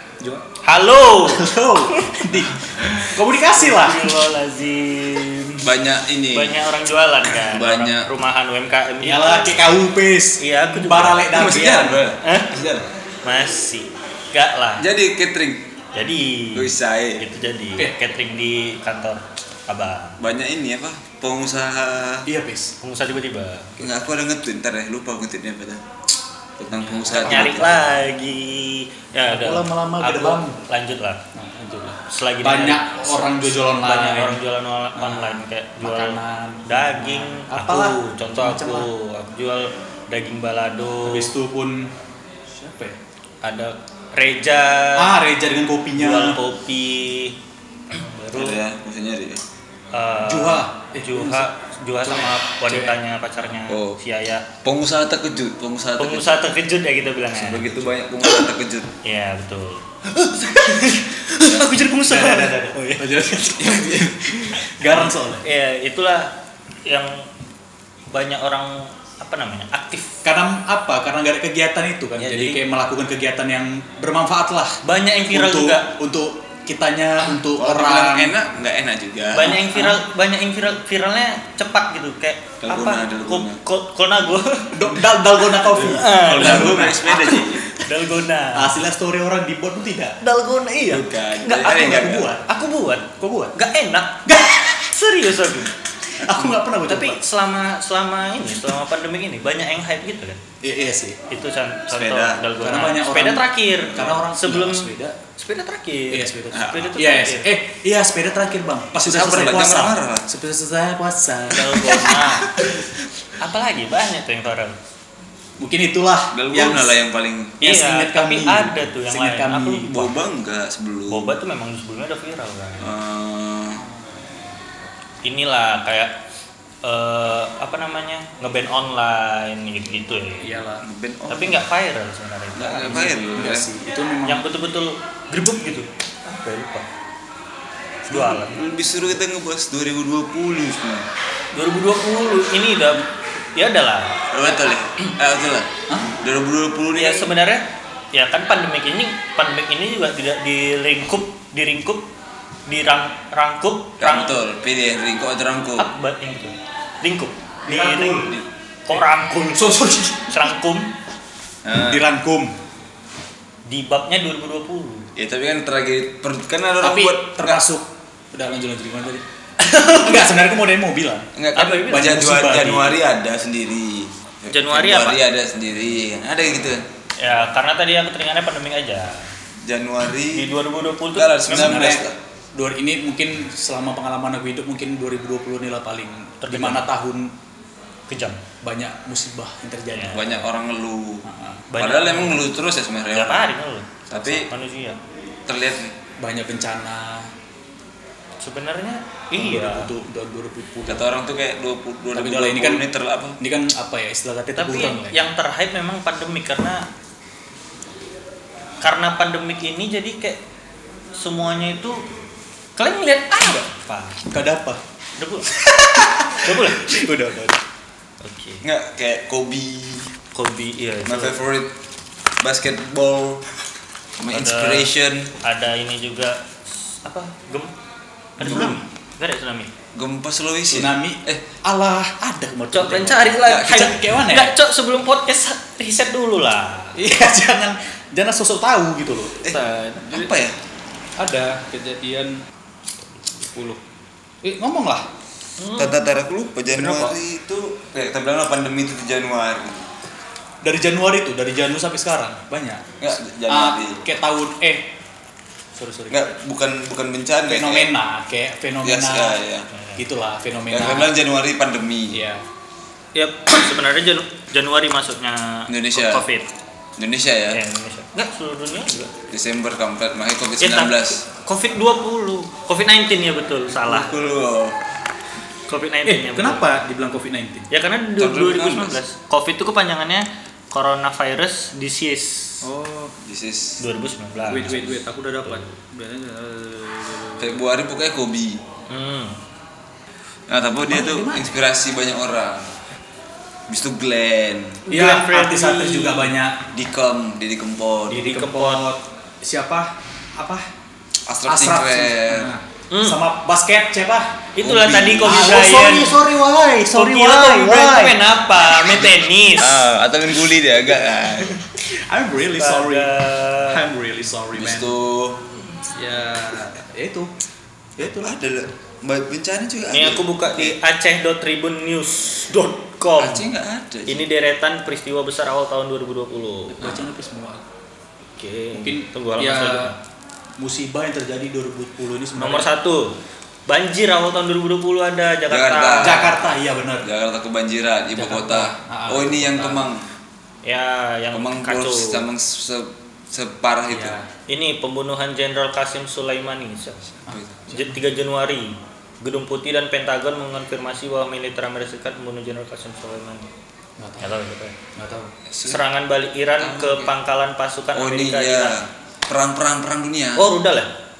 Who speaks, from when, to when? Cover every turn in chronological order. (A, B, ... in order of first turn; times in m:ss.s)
0:00.6-0:02.3 A
0:01.2-0:04.1 B
0:03.5-0:05.7 A
0:05.6-0:06.6 C
0:06.3-0:09.7 A
0:07.4-0:08.1 C
0:09.0-0:12.0 B
0:10.4-0:11.3 A
0:11.3-0:12.8 C
0:12.2-0:12.5 A
0:13.2-0:14.9 A
0:14.8-0:15.6 C
0:15.9-0:20.2 A
0:16.5-0:17.2 C
0:20.2-0:22.3 C
0:22.2-0:22.7 B
0:22.8-0:23.9 A
0:23.8-0:25.8 C
0:26.6-0:27.9 C
0:26.7-0:27.8 B
0:27.1-0:31.2 A
0:29.3-0:30.6 B
0:31.4-0:34.4 B
0:32.1-0:41.3 A
0:35.0-0:38.9 B
0:41.0-0:41.9 B
0:42.5-0:43.0 B
0:43.4-0:45.1 A
0:45.0-0:46.4 B
0:45.9-0:47.4 A
0:47.9-0:48.6 A
0:48.3-0:49.4 C
0:49.9-0:54.4 A
0:50.2-0:53.0 B
0:53.7-0:54.0 C
0:54.6-0:56.5 C
0:56.0-0:58.4 A
0:57.3-0:58.9 C
0:59.0-1:03.1 A
1:01.9-1:05.4 B
1:03.6-1:04.6 C
1:04.9-1:06.3 A
1:06.8-1:07.3 A
1:08.1-1:10.2 A
1:10.2-1:18.4 B
1:12.2-1:12.6 A
1:14.8-1:15.9 A
1:17.4-1:19.6 C
1:19.3-1:25.1 A
1:19.6-1:20.0 B
1:22.6-1:23.6 C
1:24.7-1:27.7 B
1:25.7-1:28.8 A
1:25.8-1:27.7 C
1:28.5-1:30.2 B
1:30.2-1:31.7 A
1:30.9-1:32.3 C
1:31.6-1:32.5 B
1:32.4-1:34.3 A
1:33.2-1:33.5 B
1:34.2-1:34.9 B
1:34.8-1:35.7 A
1:36.2-1:37.2 B
1:36.2-1:36.5 C
1:36.8-1:40.4 A
1:40.6-1:41.2 B
1:41.3-1:47.5 A
1:41.9-1:42.4 C
1:42.6-1:45.2 B
1:43.7-1:44.1 C
1:46.1-1:52.0 B
1:46.5-1:47.0 C
1:48.9-1:50.3 C
1:51.5-1:52.7 A
1:51.9-1:52.9 C
1:53.4-1:54.8 A
1:55.6-1:57.0 B
1:56.3-1:57.6 C
1:57.6-2:00.0 A
1:57.6-2:00.1 B
1:59.8-2:01.4 C
2:01.1-2:02.9 A
2:02.8-2:03.8 C
2:03.7-2:04.4 B
2:05.2-2:06.1 A
2:06.8-2:10.6 A
2:10.4-2:10.8 B
2:10.8-2:11.6 C
2:11.3-2:13.1 A
2:12.5-2:13.7 C
2:12.9-2:14.4 B
2:14.2-2:16.9 A
2:18.1-2:18.6 A
2:18.1-2:21.0 C
2:21.5-2:24.3 A
2:24.3-2:27.3 C
2:26.9-2:32.1 A
2:32.7-2:34.4 A
2:34.0-2:35.9 C
2:35.8-2:38.3 A
2:37.6-2:38.4 B
2:38.8-2:40.9 A
2:39.5-2:40.5 B
2:41.6-2:42.1 C
2:41.8-2:42.5 B
2:43.7-2:45.1 A
2:45.2-2:47.6 C
2:46.8-2:49.2 B
2:49.6-2:50.3 A
2:49.9-2:51.3 B
2:51.3-2:56.8 C
2:51.5-2:52.9 A
2:51.9-2:53.0 B
2:54.5-2:55.2 A
2:57.2-2:59.3 A
2:59.6-3:00.5 C
3:00.3-3:01.9 A
3:01.1-3:02.2 C
3:01.5-3:07.3 B
3:06.4-3:06.8 A
3:08.1-3:08.4 A
3:08.6-3:10.4 B
3:09.9-3:10.2 A
3:10.1-3:11.2 C
3:11.2-3:11.6 B
3:11.7-3:12.5 A
3:11.8-3:13.5 C
3:13.1-3:15.0 A
3:14.1-3:14.5 C
3:15.5-3:15.9 C
3:16.2-3:17.3 B
3:18.4-3:19.9 A
3:19.3-3:21.1 B
3:20.8-3:23.4 C
3:22.1-3:22.8 B
3:23.4-3:25.2 B
3:24.5-3:26.8 A
3:28.8-3:30.4 A
3:31.1-3:32.0 A
3:32.8-3:34.3 A
3:34.3-3:34.8 B
3:35.2-3:35.6 A
3:35.6-3:37.6 B
3:36.3-3:36.9 A
3:38.2-3:38.6 A
3:38.6-3:40.1 C
3:40.3-3:41.4 A
3:41.0-3:41.7 C
3:42.4-3:43.4 C
3:44.2-3:45.3 C
3:44.3-3:47.7 A
3:48.4-3:49.7 A
3:48.4-3:48.8 B
3:49.9-3:51.4 C
3:50.7-3:54.5 B
3:52.7-3:57.0 A
3:53.4-3:53.9 C
3:57.0-3:59.4 B
3:59.4-4:00.3 A
3:59.4-4:00.6 C
4:01.2-4:02.4 B
4:03.4-4:03.8 B
4:04.4-4:05.0 B
4:05.6-4:06.0 A
4:05.8-4:09.9 C
4:06.7-4:07.2 B
4:10.6-4:12.8 B
4:13.0-4:14.0 C
4:13.5-4:14.9 B
4:15.7-4:16.2 B
4:16.1-4:17.9 C
4:17.5-4:19.4 B
4:18.8-4:19.7 C
4:19.7-4:20.0 A
4:20.0-4:21.2 B
4:20.7-4:22.2 C
4:22.1-4:22.4 B
4:23.1-4:26.5 A
4:25.7-4:26.2 C
4:27.0-4:27.6 C
4:27.5-4:29.1 A
4:29.3-4:31.2 C
4:30.6-4:34.1 A
4:33.7-4:34.8 C
4:35.7-4:36.7 A
4:36.0-4:37.7 B
4:37.7-4:42.6 A
4:38.2-4:39.0 C
4:42.6-4:43.1 B
4:43.2-4:43.8 C
4:43.8-4:45.7 A
4:44.5-4:47.6 B
4:44.5-4:44.9 C
4:47.4-4:48.6 C
4:48.9-4:49.4 A
4:50.5-4:52.7 C
4:50.8-4:51.5 B
4:53.7-4:54.8 C
4:54.8-4:56.3 A
4:54.9-4:56.6 B
4:56.7-4:58.2 C
4:58.1-5:00.6 B
4:58.1-4:58.9 A
5:01.2-5:02.5 C
5:01.4-5:04.5 B
5:02.9-5:03.2 A
5:04.5-5:06.2 A
5:04.6-5:05.6 C
5:05.2-5:08.2 B
5:06.8-5:09.8 A
5:08.8-5:11.5 C
5:12.1-5:15.0 B
5:12.6-5:13.8 A
5:14.5-5:15.4 C
5:15.9-5:17.3 B
5:18.0-5:18.3 B
5:18.0-5:20.8 C
5:19.9-5:23.4 A
5:23.2-5:24.3 C
5:24.1-5:26.8 A
5:26.7-5:27.6 B
5:28.3-5:30.0 A
5:28.7-5:29.9 B
5:30.6-5:32.7 B
5:32.4-5:33.1 A
5:33.7-5:36.4 A
5:35.5-5:36.4 C
5:36.0-5:37.1 B
5:37.0-5:40.0 C
5:38.1-5:39.8 B
5:40.6-5:42.2 A
5:41.3-5:44.2 C
5:43.9-5:44.3 B
5:44.5-5:47.1 A
5:47.3-5:47.6 C
5:47.3-5:48.0 B
5:47.7-5:53.5 A
5:54.0-5:54.3 B
5:54.2-5:54.8 A
5:55.0-5:55.3 B
5:55.5-5:55.8 C
5:55.6-5:58.8 A
5:56.6-5:57.1 C
5:57.9-6:00.6 C
6:00.4-6:00.9 A